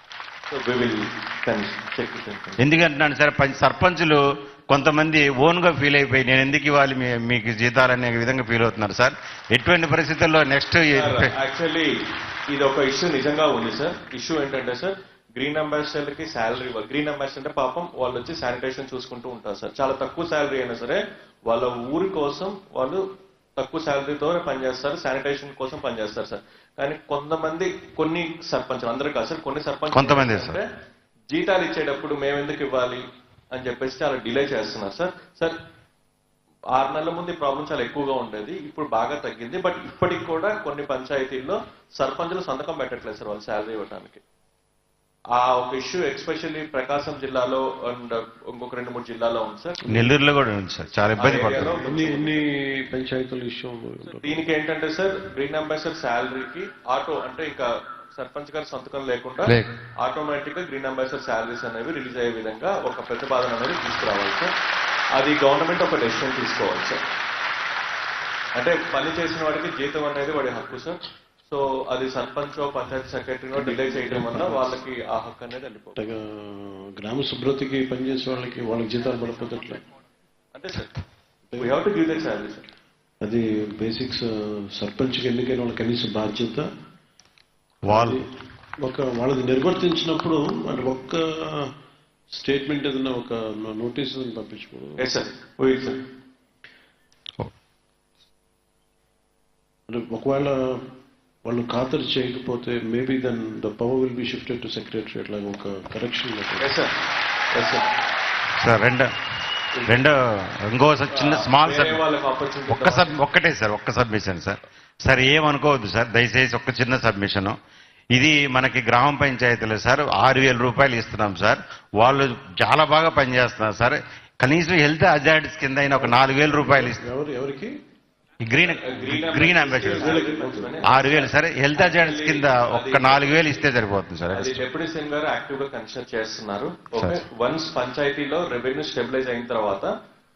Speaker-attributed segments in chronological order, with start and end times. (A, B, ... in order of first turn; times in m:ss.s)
0:00.5-0:02.6 A
0:02.6-0:11.3 B
0:10.9-0:11.9 A
0:12.5-0:23.0 A
0:23.6-0:30.7 A
0:29.9-0:30.6 B
0:31.3-0:35.6 A
0:36.7-0:44.2 A
0:45.3-0:49.8 A
0:49.9-0:51.7 B
0:51.2-0:52.5 A
0:51.7-0:54.4 C
0:54.1-1:04.5 A
0:59.5-0:59.7 B
1:05.2-1:07.0 A
1:08.6-1:16.0 A
1:13.6-1:14.6 C
1:16.0-1:19.8 C
1:20.5-1:21.0 A
1:21.5-1:21.8 C
1:21.6-1:22.6 A
1:23.2-1:26.7 C
1:27.9-1:28.2 B
1:27.9-1:28.3 C
1:28.8-1:31.7 C
1:32.3-1:35.0 C
1:35.0-1:36.0 A
1:39.9-1:40.8 C
1:41.4-1:46.7 C
1:46.6-1:46.9 A
1:47.5-1:47.9 A
1:48.6-1:49.1 B
1:49.8-1:50.0 A
1:49.9-1:52.0 B
1:51.1-1:53.2 A
1:52.7-1:57.6 B
1:58.1-2:07.0 B
2:06.0-2:07.7 C
2:08.4-2:10.2 B
2:08.6-2:13.7 A
2:09.9-2:10.8 C
2:10.8-2:14.6 B
2:14.3-2:19.9 A